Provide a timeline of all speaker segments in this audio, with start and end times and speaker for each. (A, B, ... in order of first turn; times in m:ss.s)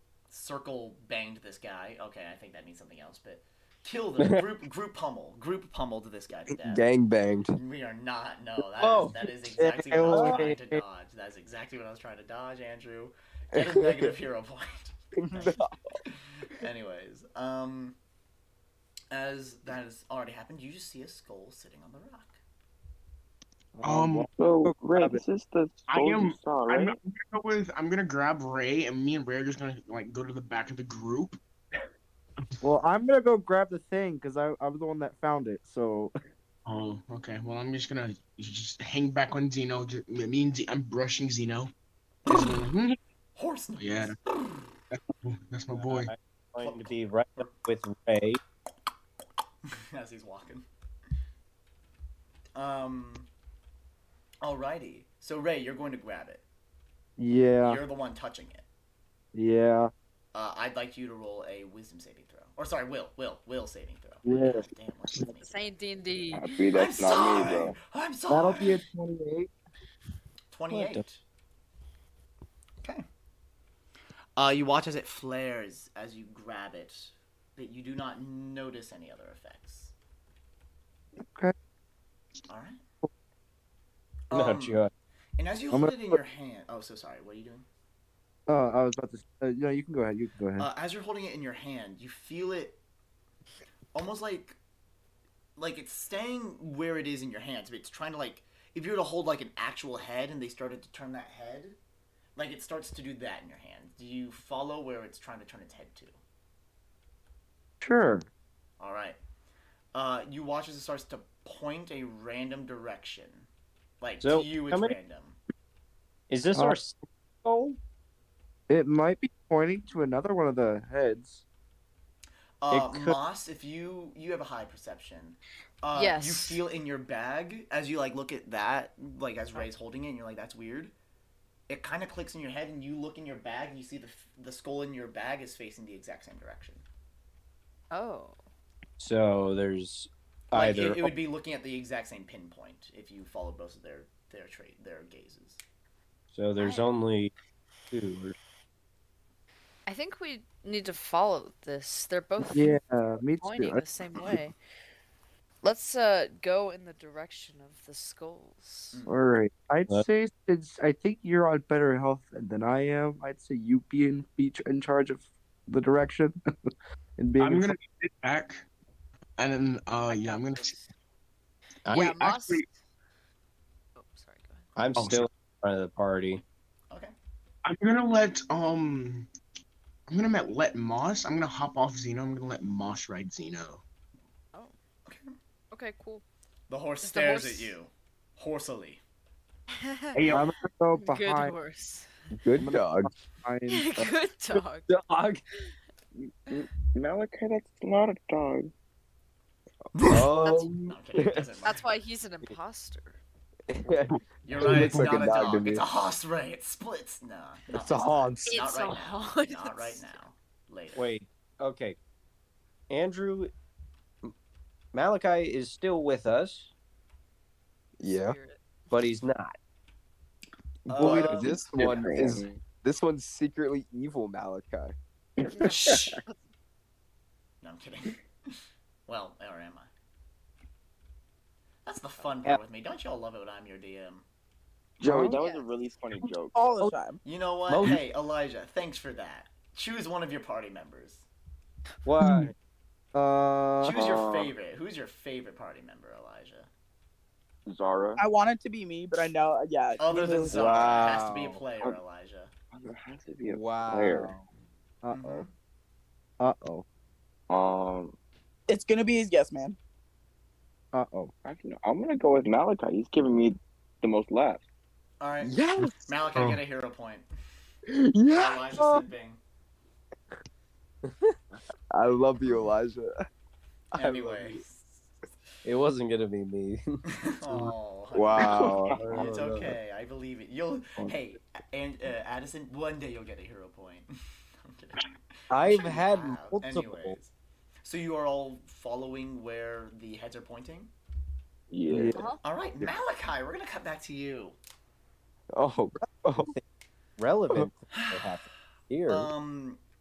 0:00.3-0:06.9 A
0:04.2-0:04.4 B
0:06.5-0:07.6 B
0:07.5-0:15.6 A
0:09.6-0:10.6 C
0:10.1-0:10.5 B
0:13.5-0:14.1 B
0:15.3-0:15.7 B
0:16.4-0:18.0 A
0:19.1-0:22.4 A
0:23.8-0:25.2 C
0:23.8-0:24.3 D
0:24.4-0:27.0 E
0:25.9-0:31.4 D
0:32.6-0:36.1 C
0:36.6-0:41.7 D
0:42.2-0:42.6 A
0:42.3-0:43.0 D
0:43.4-0:44.7 A
0:43.8-0:44.2 D
0:44.9-0:46.1 D
0:45.8-0:48.4 F
0:49.7-0:50.6 A
0:52.5-0:53.3 A
0:54.4-0:56.4 A
0:57.2-0:57.8 C
0:57.6-0:58.6 A
0:59.3-0:59.9 C
1:00.3-1:05.5 A
1:04.2-1:04.6 C
1:05.3-1:06.7 G
1:06.3-1:07.8 E
1:06.7-1:08.8 A
1:08.3-1:09.5 C
1:10.5-1:11.2 A
1:10.7-1:11.0 F
1:14.4-1:19.9 A
1:22.5-1:22.8 A
1:24.3-1:24.8 A
1:24.3-1:24.9 F
1:25.4-1:27.7 A
1:25.7-1:26.2 C
1:28.5-1:30.7 C
1:30.6-1:32.8 A
1:33.9-1:34.6 A
1:35.6-1:41.8 A
1:42.4-1:46.2 A
1:47.8-1:48.2 C
1:48.8-1:49.2 A
1:49.9-1:53.5 A
1:54.0-1:55.4 A
1:54.2-1:54.9 F
1:56.3-1:57.8 F
1:58.7-2:01.4 C
2:02.6-2:10.9 A
2:02.7-2:03.2 F
2:05.9-2:06.6 G
2:11.7-2:16.8 A
2:17.9-2:18.4 G
2:19.0-2:21.1 F
2:20.5-2:25.6 A
2:26.3-2:27.3 F
2:26.6-2:26.9 G
2:27.9-2:28.4 F
2:29.9-2:32.8 G
2:32.5-2:33.8 C
2:33.4-2:34.5 G
2:35.6-2:39.0 G
2:38.9-2:39.2 A
2:39.0-2:46.4 C
2:47.2-2:47.7 C
2:47.4-2:48.6 D
2:49.4-2:50.8 D
2:50.1-2:50.7 G
2:51.9-2:52.7 G
2:51.9-2:52.6 D
2:54.0-2:54.7 G
2:54.8-2:56.4 F
2:55.0-2:55.3 D
2:57.6-2:59.3 D
3:00.1-3:03.8 D
3:05.0-3:05.3 A
3:05.7-3:06.2 G
3:06.7-3:09.0 A
3:07.0-3:07.7 G
3:09.8-3:10.4 G
3:10.1-3:10.5 D
3:10.3-3:11.5 C
3:10.9-3:12.1 G
3:12.4-3:13.1 B
3:12.6-3:14.1 C
3:13.7-3:14.9 G
3:14.9-3:15.4 B
3:16.2-3:18.7 E
3:19.9-3:21.8 A
3:20.1-3:21.4 B
3:20.4-3:20.7 G
3:21.6-3:23.2 G
3:23.7-3:25.8 B
3:24.1-3:25.3 D
3:24.4-3:31.0 A
3:27.7-3:28.5 B
3:28.4-3:30.1 G
3:30.9-3:32.0 F
3:32.9-3:33.5 F
3:34.9-3:36.7 F
3:38.0-3:38.4 B
3:38.0-3:38.6 G
3:38.9-3:39.6 F
3:40.9-3:41.5 A
3:40.9-3:44.9 B
3:41.0-3:42.6 E
3:45.6-3:46.2 A
3:47.6-3:48.2 A
3:49.1-3:49.9 A
3:51.8-3:54.2 A
3:55.0-3:56.6 E
3:55.2-3:55.6 G
3:56.5-3:57.2 H
3:57.2-4:01.3 A
3:57.7-3:58.0 F
4:02.0-4:02.5 F
4:03.1-4:04.0 C
4:03.8-4:06.7 A
4:03.9-4:04.5 E
4:07.6-4:08.2 E
4:08.2-4:10.6 H
4:10.0-4:12.5 A
4:10.5-4:11.5 C
4:12.7-4:14.4 E
4:13.5-4:14.4 C
4:15.0-4:15.4 C
4:15.1-4:15.5 A
4:16.4-4:16.8 C
4:17.5-4:18.2 E
4:18.7-4:19.8 H
4:20.9-4:21.3 C
4:21.4-4:24.6 E
4:25.2-4:27.3 A
4:25.4-4:25.9 B
4:26.3-4:26.6 D
4:27.9-4:29.0 B
4:28.3-4:29.4 A
4:31.9-4:33.1 B
4:33.9-4:35.1 A
4:33.9-4:34.6 B
4:35.6-4:37.0 F
4:37.1-4:44.1 A
4:38.1-4:39.0 B
4:38.9-4:39.7 F
4:44.6-4:45.0 A
4:45.5-4:47.2 F
4:45.6-4:47.3 A
4:47.8-4:50.9 A
4:51.7-4:52.3 E
4:52.1-4:52.4 G
4:52.4-4:54.6 A
4:55.5-4:56.5 B
4:57.2-4:59.3 F
4:57.9-4:58.2 A
4:59.1-4:59.8 A